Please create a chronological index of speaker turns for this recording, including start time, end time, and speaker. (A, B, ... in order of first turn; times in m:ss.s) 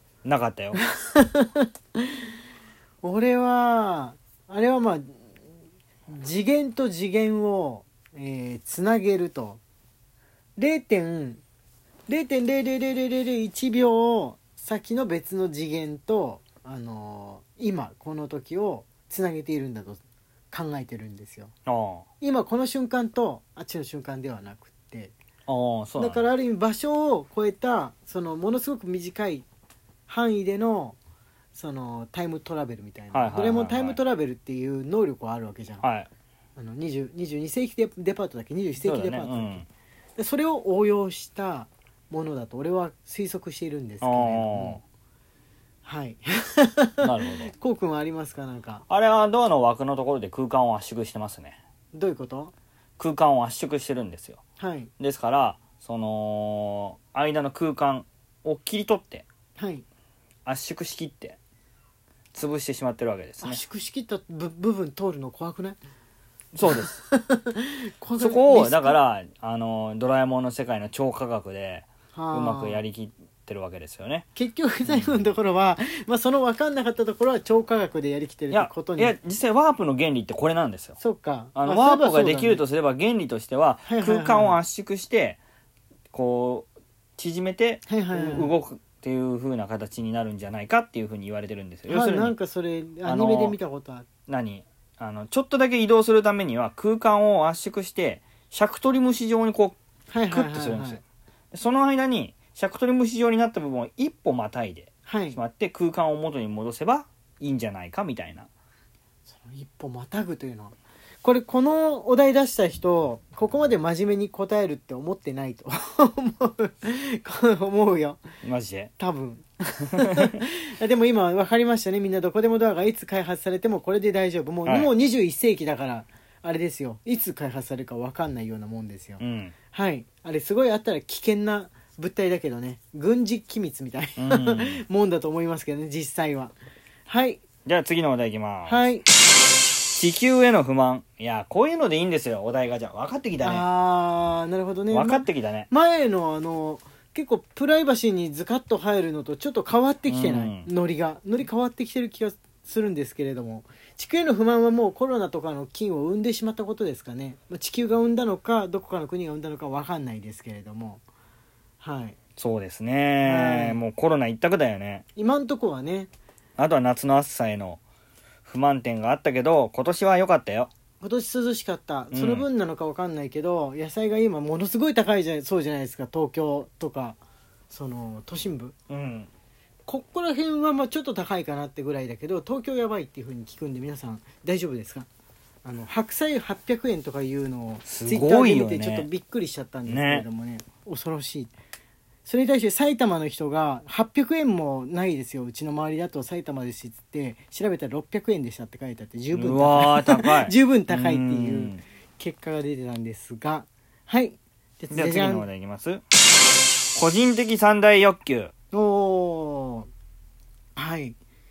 0:00.2-0:00.8 A
0:01.0-0:02.2 B
0:03.0-0:05.1 B
0:06.1-0:09.6 B
0:10.6-0:11.4 B
0:12.1-0:21.5 B
0:21.7-0:22.1 A
0:22.2-0:25.1 B
0:25.5-0:26.2 A
0:26.0-0:29.5 B
0:30.1-0:31.0 B
0:31.5-0:35.8 B
0:33.1-0:34.0 A
0:35.8-0:36.1 A
0:36.6-0:39.6 B
0:38.8-0:39.7 A
0:40.2-0:44.8 B
0:44.0-0:44.8 A
0:45.8-0:48.8 B
0:47.0-0:47.5 A
0:48.9-0:51.6 A
0:51.9-0:52.5 B
0:53.0-0:54.4 A
0:54.6-0:54.9 B
0:55.0-0:59.3 A
0:59.6-0:59.8 B
1:00.5-1:01.4 A
1:02.3-1:03.6 A
1:03.4-1:05.8 B
1:06.5-1:07.0 A
1:06.6-1:09.0 B
1:08.2-1:14.2 A
1:12.1-1:12.8 B
1:14.4-1:19.1 B
1:14.9-1:15.2 A
1:18.5-1:21.0 A
1:21.0-1:22.6 B
1:21.6-1:25.4 A
1:23.9-1:24.6 B
1:26.1-1:32.3 A
1:27.9-1:28.6 B
1:31.9-1:34.1 B
1:33.0-1:33.6 A
1:34.3-1:39.8 A
1:40.1-1:41.0 B
1:40.3-1:41.0 A
1:41.5-1:48.5 A
1:45.1-1:45.4 B
1:49.3-1:58.2 B
1:58.4-1:58.9 A
1:59.0-2:16.6 B
2:00.0-2:00.3 A
2:04.7-2:04.9 A
2:09.2-2:09.5 A
2:14.2-2:14.8 A
2:17.1-2:17.4 B
2:17.6-2:18.8 A
2:18.7-2:19.0 B
2:20.0-2:23.6 A
2:23.4-2:41.0 B
2:24.9-2:25.7 A
2:30.1-2:30.7 A
2:41.8-2:42.2 B
2:42.4-2:45.0 A
2:43.2-2:43.8 B
2:45.2-2:46.1 B
2:46.6-2:47.8 A
2:48.4-2:50.7 A
2:51.0-2:57.2 B
2:52.1-2:52.5 A
2:57.7-2:58.8 B
2:58.9-2:59.3 A
2:59.9-3:05.1 B
3:05.6-3:11.5 B
3:07.9-3:09.1 A
3:09.9-3:10.3 A
3:12.3-3:25.5 B
3:19.3-3:21.8 A
3:24.9-3:26.0 A
3:27.0-3:28.5 A
3:28.7-3:29.9 B
3:30.8-3:31.2 B